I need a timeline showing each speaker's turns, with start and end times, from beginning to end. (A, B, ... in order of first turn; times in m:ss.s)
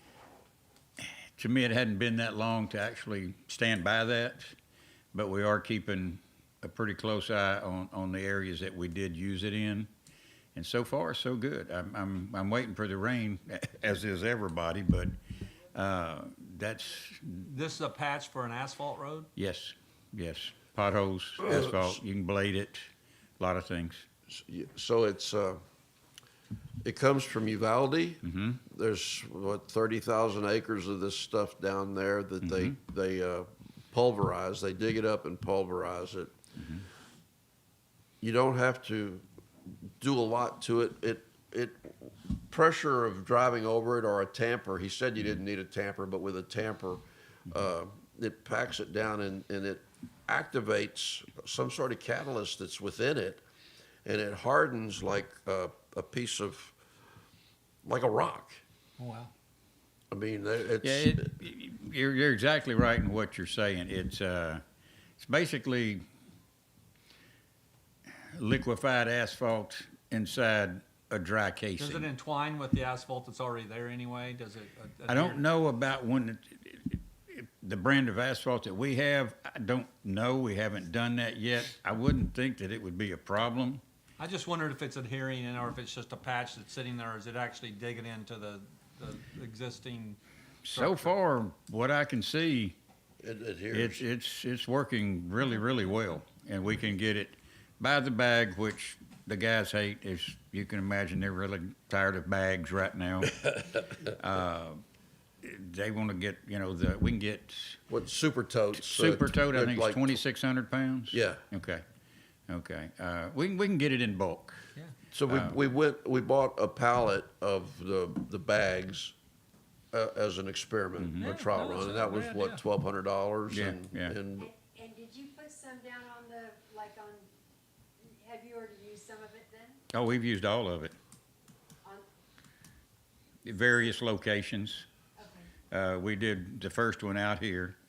0:01.0-0:04.5 A
0:05.1-0:09.9 A
0:10.6-0:15.2 A
0:15.7-0:17.5 A
0:17.4-0:19.3 B
0:19.4-0:22.9 A
0:21.4-0:22.0 C
0:23.4-0:24.0 A
0:24.3-0:25.6 C
0:26.8-0:36.4 C
0:28.2-0:28.6 A
0:32.4-0:32.8 A
0:36.6-0:36.9 A
0:38.2-0:53.4 C
0:54.0-0:56.8 C
0:57.8-0:58.6 C
0:59.0-0:59.3 B
1:00.1-1:01.3 C
1:00.8-1:04.6 A
1:05.2-1:06.0 A
1:08.3-1:12.0 A
1:11.8-1:15.5 B
1:15.1-1:23.8 A
1:24.2-1:30.2 B
1:30.6-1:32.8 A
1:30.7-1:31.2 B
1:33.2-1:34.0 C
1:33.7-1:44.8 A
1:45.4-1:47.8 A
1:47.9-1:50.1 C
1:48.7-1:51.8 A
1:51.1-1:51.5 C
1:52.5-1:54.6 A
1:55.2-1:59.2 C
1:55.3-1:55.6 A
1:59.9-2:04.5 C
2:01.0-2:01.4 A
2:01.2-2:02.6 B
2:03.5-2:04.2 A
2:04.4-2:07.3 D
2:08.0-2:09.8 D
2:09.9-2:11.0 A
2:13.4-2:14.8 A
2:15.2-2:15.5 D
2:15.7-2:17.8 A